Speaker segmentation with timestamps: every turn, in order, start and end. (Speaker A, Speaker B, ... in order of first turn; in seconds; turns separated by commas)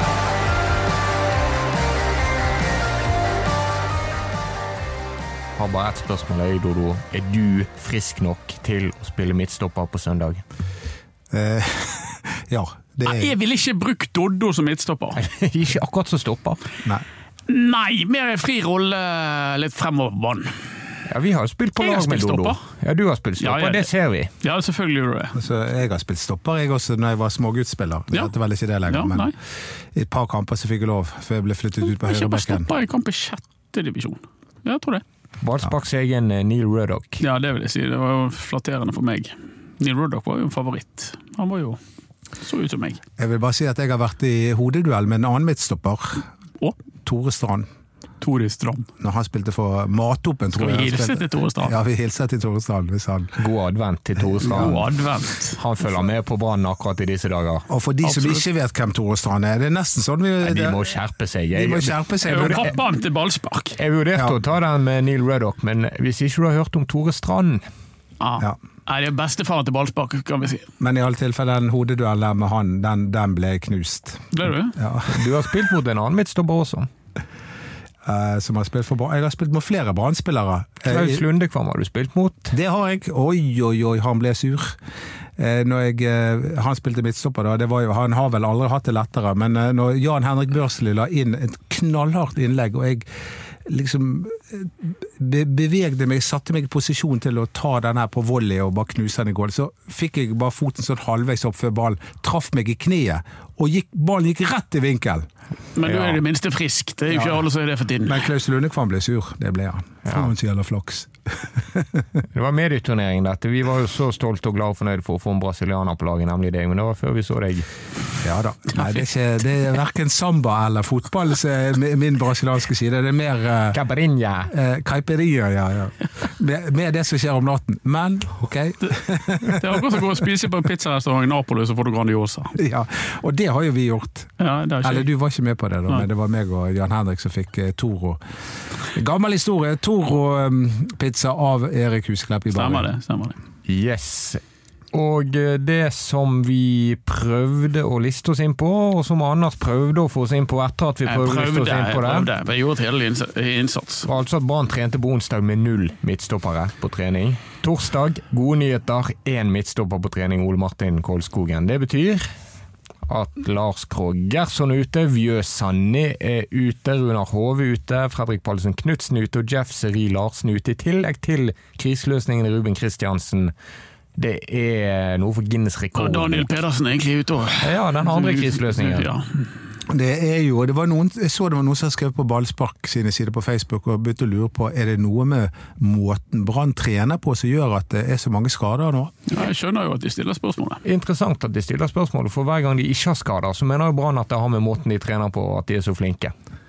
Speaker A: 5.6-10.4, Speaker B: 11.3-13.3, Speaker C: 13.0-15.2, Speaker A: 15.2-16.6, Speaker C: 17.5-20.7, Speaker A: 21.1-24.3, Speaker C: 21.8-22.6, Speaker C: 23.4-23.9, Speaker C: 24.4-25.4, Speaker B: 25.3-29.3, Speaker C: 28.9-29.3, Speaker B: 29.9-32.7, Speaker C: 32.0-35.0, Speaker A: 35.4-37.2, Speaker C: 37.2-41.8, Speaker C: 42.4-43.0, Speaker B: 43.2-46.3, Speaker B: 47.0-47.7, Speaker C: 48.2-48.9, Speaker B: 49.0-53.4, Speaker C: 50.6-51.8, Speaker A: 53.4-54.9, Speaker C: 54.4-55.6, Speaker A: 55.6-57.6, Speaker B: 57.7-60.8, Speaker C: 58.0-58.4, Speaker A: 60.4-62.5, Speaker B: 61.5-62.8, Speaker C: 62.2-63.8, Speaker A: 63.8-67.6, Speaker C: 68.2-70.7, Speaker B: 70.8-75.3, Speaker C: 74.3-74.8, Speaker A: 75.1-76.9, Speaker B: 78.0-81.2, Speaker A: 80.9-82.5, Speaker B: 82.5-84.8, Speaker B: 85.4-93.1, Speaker B: 93.7-105.3, Speaker C: 105.8-108.2, Speaker A: 105.8-106.2, Speaker B: 107.1-107.4, Speaker B: 108.0-112.0, Speaker A: 112.3-117.7, Speaker B: 118.2-123.8, Speaker A: 123.7-124.5, Speaker B: 124.5-130.1, Speaker C: 128.8-132.6, Speaker B: 132.6-138.2, Speaker C: 134.4-135.1, Speaker B: 138.9-142.9, Speaker C: 142.5-143.4, Speaker A: 143.7-144.4, Speaker A: 144.9-152.3, Speaker C: 151.1-154.1, Speaker A: 154.1-162.3, Speaker A: 163.1-173.5, Speaker A: 174.2-176.5, Speaker C: 176.0-179.4, Speaker A: 177.6-179.1, Speaker B: 179.9-189.1, Speaker C: 189.3-190.8, Speaker A: 190.8-196.3